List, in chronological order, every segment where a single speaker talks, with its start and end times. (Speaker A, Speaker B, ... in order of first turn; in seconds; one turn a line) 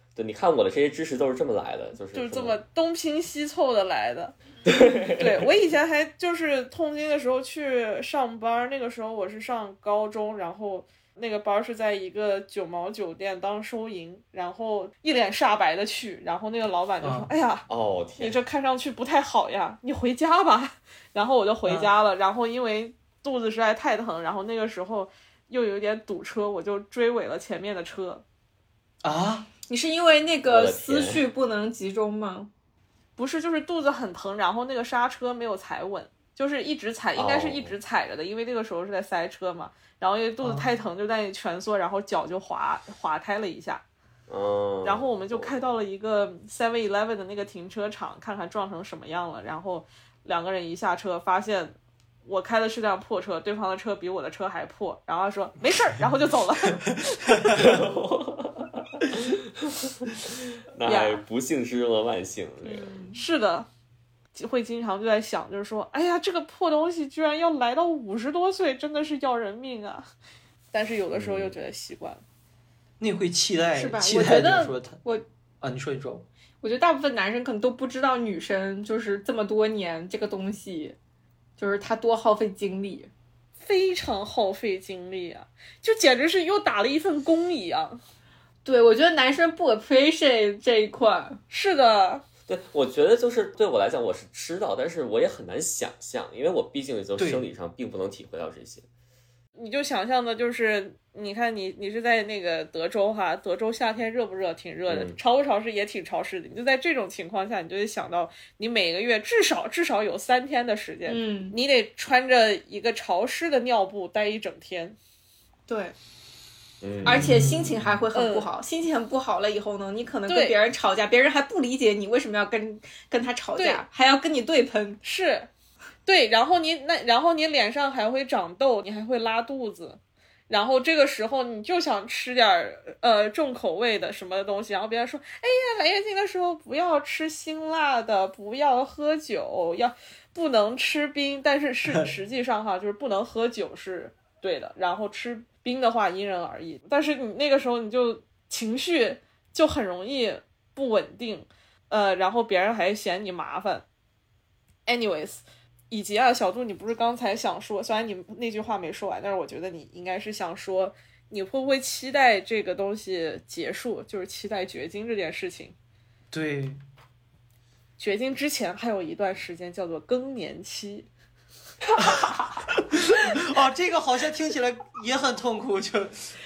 Speaker A: 0.2-2.6
Speaker B: 2.1-4.4
Speaker A: 4.7-5.4
Speaker B: 5.1-17.6
Speaker C: 17.0-17.3
Speaker A: 17.7-18.4
Speaker B: 18.2-28.2
Speaker C: 21.7-21.9
Speaker C: 29.0-29.5
Speaker D: 29.6-32.5
Speaker A: 30.4-31.3
Speaker B: 33.2-43.8
Speaker A: 37.2-37.8
Speaker C: 40.4-40.7
Speaker A: 44.3-45.6
Speaker B: 44.8-57.6
Speaker A: 57.5-63.1
Speaker B: 60.8-61.2
Speaker B: 62.6-63.7
Speaker B: 64.3-70.1
Speaker B: 70.7-72.2
Speaker A: 71.1-71.5
Speaker C: 73.0-75.0
Speaker D: 73.8-75.2
Speaker C: 75.6-76.3
Speaker D: 76.6-81.0
Speaker D: 81.6-83.1
Speaker B: 83.6-88.0
Speaker D: 88.7-91.4
Speaker B: 91.5-92.2
Speaker A: 92.5-98.9
Speaker C: 97.2-97.4
Speaker B: 99.6-115.0
Speaker A: 104.9-105.2
Speaker D: 111.1-111.6
Speaker D: 115.7-116.0
Speaker A: 116.8-117.3
Speaker D: 117.0-125.0
Speaker C: 117.1-117.8
Speaker B: 118.1-118.5
Speaker B: 120.3-120.6
Speaker B: 123.5-123.8
Speaker B: 125.0-125.5
Speaker B: 126.0-153.8
Speaker B: 154.9-165.8
Speaker C: 166.3-166.8
Speaker B: 168.0-171.1
Speaker C: 172.0-176.3